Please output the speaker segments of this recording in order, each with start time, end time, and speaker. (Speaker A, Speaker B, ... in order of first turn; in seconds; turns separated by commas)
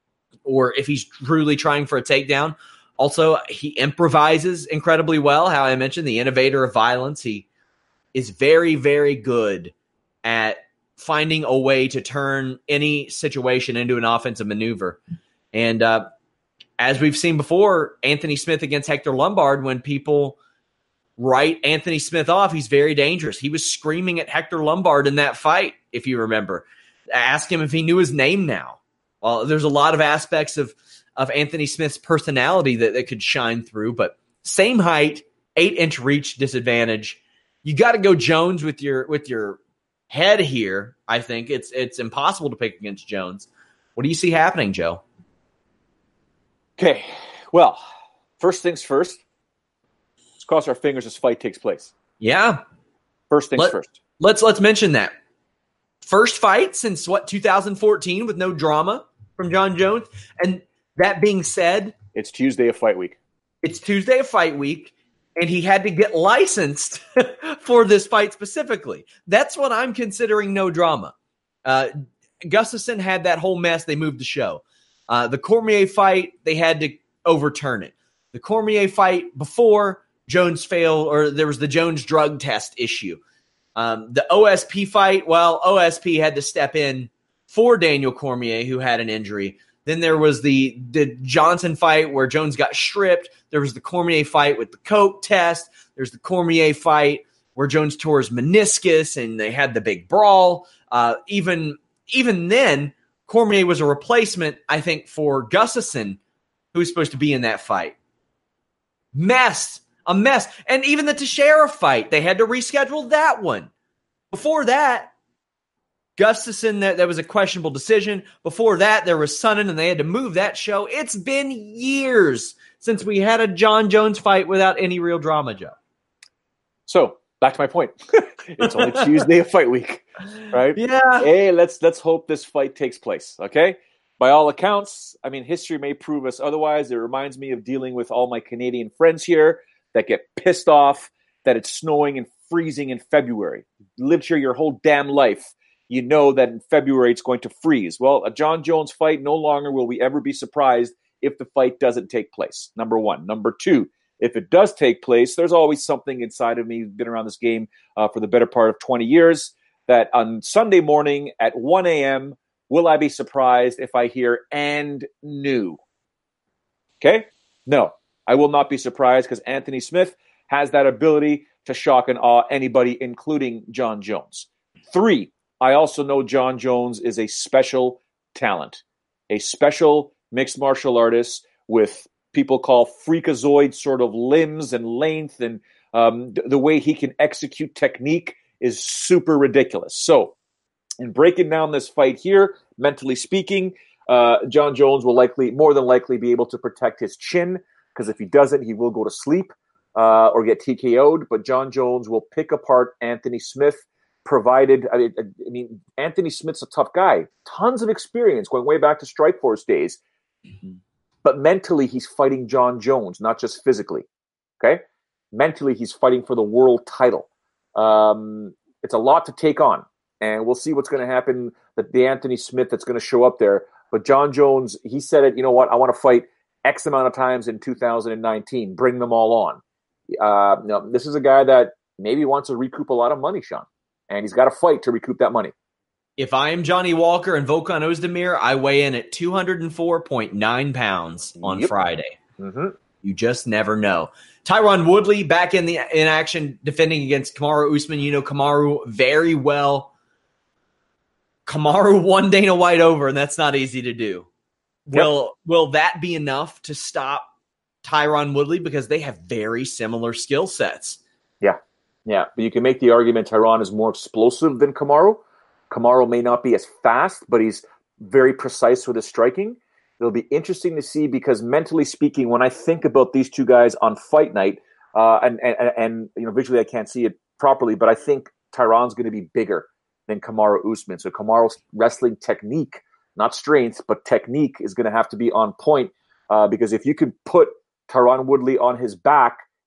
Speaker A: 0.4-7.5, Speaker A: 8.1-15.0, Speaker A: 15.5-16.1, Speaker A: 16.8-20.4, Speaker A: 21.2-45.0, Speaker B: 46.8-47.8, Speaker B: 48.4-49.2, Speaker B: 50.4-51.9, Speaker A: 52.2-52.6, Speaker B: 53.3-53.9, Speaker A: 53.5-55.1, Speaker A: 56.0-61.9, Speaker B: 62.1-63.2, Speaker A: 63.6-71.1, Speaker A: 71.7-71.9, Speaker A: 72.5-83.2, Speaker A: 83.8-106.2, Speaker A: 106.7-107.9, Speaker A: 109.1-113.7, Speaker A: 114.3-115.1, Speaker A: 116.2-125.7, Speaker B: 126.9-165.8, Speaker A: 128.6-129.2, Speaker A: 130.4-131.3, Speaker B: 167.0-190.3, Speaker B: 191.0-210.0, Speaker B: 211.2-214.1, Speaker B: 214.6-235.5, Speaker A: 236.2-242.2, Speaker B: 241.4-241.7, Speaker B: 242.4-242.8, Speaker A: 243.0-249.9, Speaker A: 251.4-254.3, Speaker A: 254.8-257.3, Speaker A: 257.8-261.0, Speaker B: 261.4-289.4